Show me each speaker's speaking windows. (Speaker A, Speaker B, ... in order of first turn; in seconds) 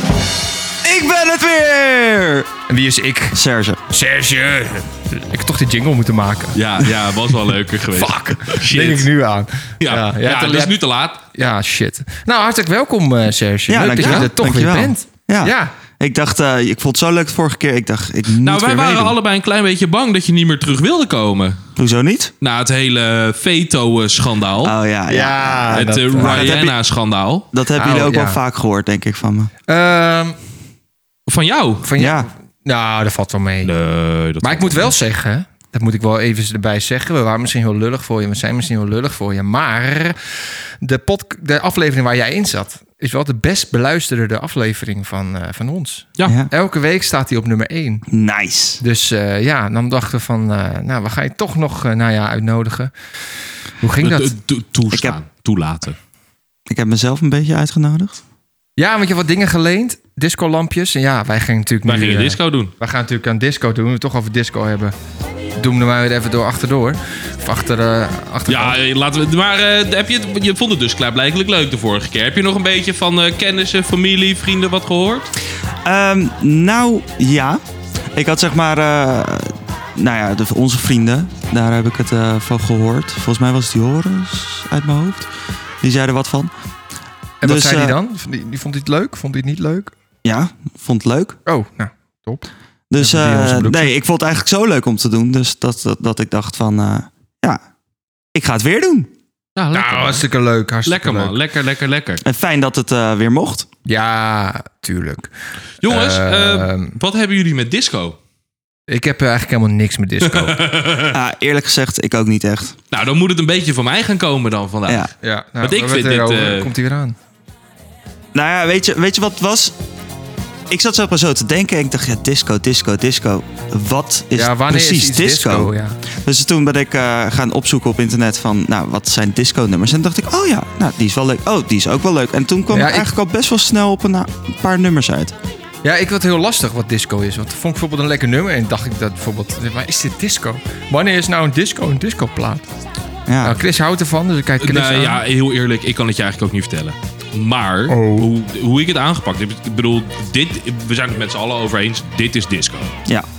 Speaker A: 0.8-2.5, 3.3-3.8, 13.7-19.1, 21.8-22.3, 24.6-26.8, 27.5-29.5, 31.9-32.3, 46.2-46.5, 48.1-48.8, 54.9-55.2, 56.7-58.2, 75.8-77.6, 78.1-85.3, 85.8-86.5, 87.4-88.0, 90.2-91.4, 92.9-97.6, 98.3-99.1, 102.2-103.7, 111.1-112.8, 114.8-115.1, 118.3-119.8, 120.7-135.3, 143.3-143.6
Speaker B: 2.7-3.4, 3.9-10.7, 11.3-15.7, 25.1-26.6, 27.7-28.4, 29.7-30.4, 31.8-33.7, 34.4-48.0, 48.8-52.9, 53.8-54.3, 58.8-64.9, 65.6-68.8, 87.4-89.9, 91.5-92.4, 93.0-93.9, 99.7-101.4, 103.8-107.0, 108.9-110.6, 115.2-117.2, 124.3-126.0, 132.7-133.1, 135.8-142.7, 143.4-145.2, 147.9-148.3
Speaker C: 6.5-9.1, 9.8-11.2, 14.0-14.3, 18.4-21.7, 22.4-24.7, 25.7-27.5, 31.3-31.9, 33.6-34.9, 54.0-56.0, 61.8-62.7, 68.5-75.3, 99.5-100.2, 100.8-102.2, 105.8-108.2, 110.2-111.2, 112.9-115.1, 115.6-116.7, 144.6-152.9